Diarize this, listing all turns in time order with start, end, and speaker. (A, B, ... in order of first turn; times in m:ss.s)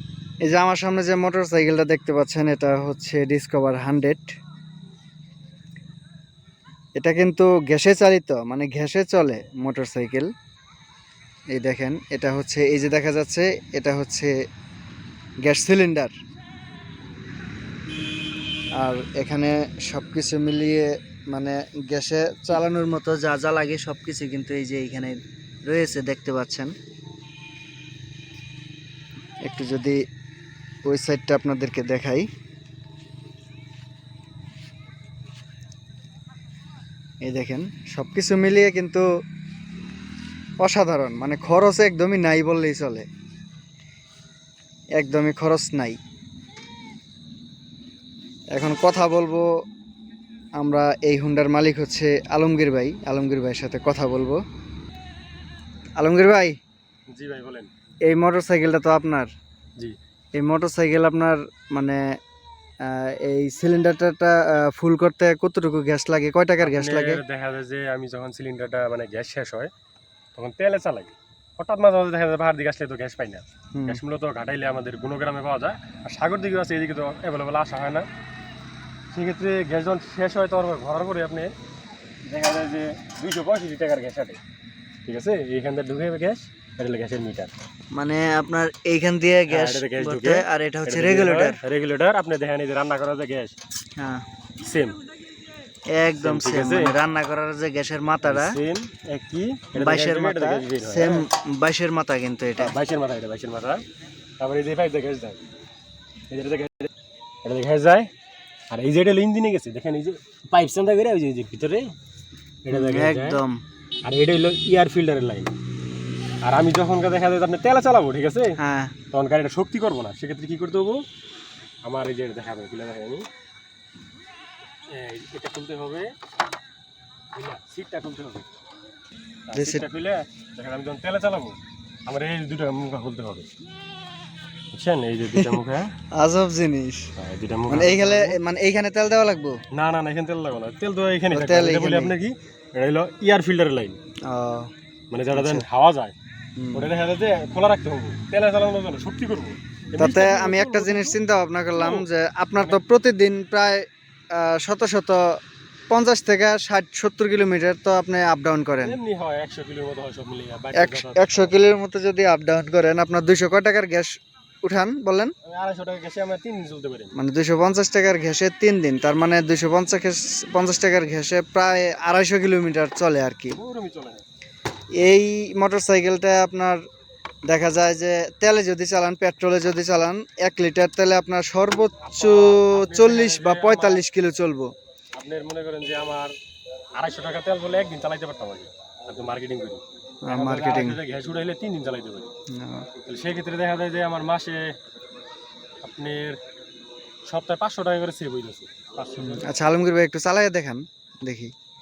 0:00.4-0:04.3 A
0:07.0-0:10.3 A
0:11.5-0:14.3 A
0:15.4-0:16.1 A
0:18.8-0:26.7 A
0:29.4-0:30.0 A
0:30.9-0:32.3 A
0:37.2-0:39.0 A
0:40.6-0:43.0 A
0:45.0-0:46.0 A
0:48.5-0:49.4 A
0:50.6-0:54.4 A
0:56.0-0:56.5 A
0:57.1-0:57.7 B
0:58.1-0:59.3 A
1:00.4-1:02.0 A
1:02.8-1:07.2 A
1:06.6-1:09.7 B
1:10.3-1:18.1 B
1:13.7-1:14.0 A
1:19.1-1:21.5 B
1:22.3-1:24.4 B
1:25.0-1:27.5 B
1:27.9-1:31.6 A
1:29.5-1:33.6 B
1:34.0-1:34.2 A
1:34.6-1:35.0 B
1:35.9-1:38.6 A
1:36.2-1:36.9 B
1:38.2-1:41.2 B
1:39.8-1:42.7 A
1:42.6-1:43.8 B
1:44.4-1:45.4 B
1:46.3-1:46.9 B
1:47.4-1:48.1 B
1:48.7-1:51.9 B
1:52.6-1:53.4 B
1:52.7-1:53.6 A
1:54.0-1:55.5 B
1:56.4-1:58.6 B
1:58.6-1:58.9 A
1:59.1-2:01.0 B
2:01.8-2:03.2 B
2:04.9-2:06.1 B
2:07.3-2:08.5 B
2:09.5-2:11.6 B
2:09.5-2:09.8 A
2:12.1-2:13.5 B
2:14.7-2:15.9 B
2:16.1-2:17.1 A
2:17.2-2:18.4 B
2:17.7-2:19.6 A
2:19.7-2:24.0 B
2:21.3-2:22.1 A
2:24.2-2:24.7 A
2:25.1-2:26.1 B
2:25.3-2:25.6 A
2:26.6-2:26.9 A
2:26.7-2:31.2 B
2:30.0-2:35.4 A
2:31.7-2:32.1 B
2:35.9-2:39.0 A
2:38.8-2:41.6 B
2:40.7-2:45.3 A
2:45.4-2:47.2 B
2:47.1-2:53.6 A
2:53.6-2:54.2 B
2:55.0-2:56.8 A
2:57.5-3:04.7 A
3:02.0-3:04.0 B
3:05.2-3:06.3 B
3:07.0-3:12.3 B
3:10.2-3:11.0 A
3:12.5-3:12.9 A
3:13.0-3:14.7 B
3:15.8-3:16.4 B
3:17.3-3:19.5 B
3:19.2-3:21.5 A